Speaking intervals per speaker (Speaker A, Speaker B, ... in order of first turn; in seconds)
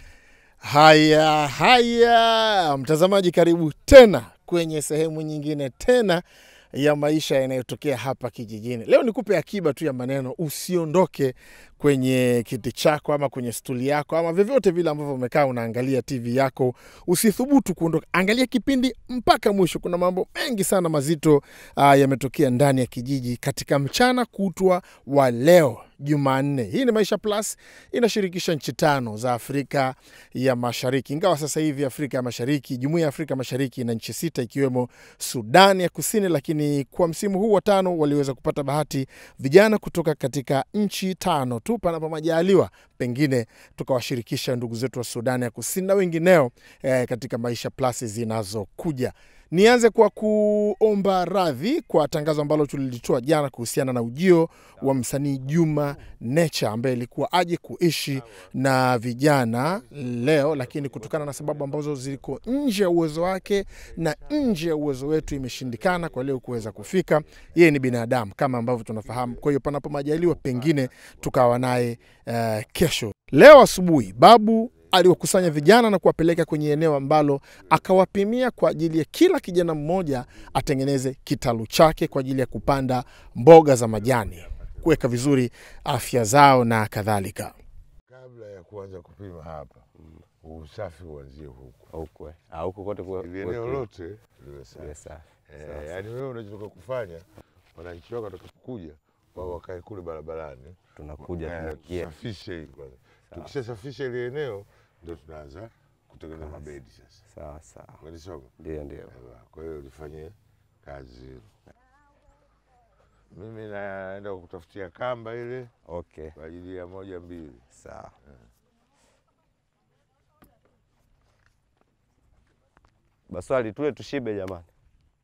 Speaker A: 0.6-87.5
Speaker B: 88.1-89.9, 90.4-91.9, 93.2-107.2, 108.0-108.5, 109.1-111.5, 113.3-115.7, 116.3-117.7
Speaker C: 91.9-93.9, 94.8-96.0, 101.0-102.2, 106.4-106.7, 107.3-108.0, 108.6-109.1, 115.9-116.3, 117.7-118.1, 123.3-124.7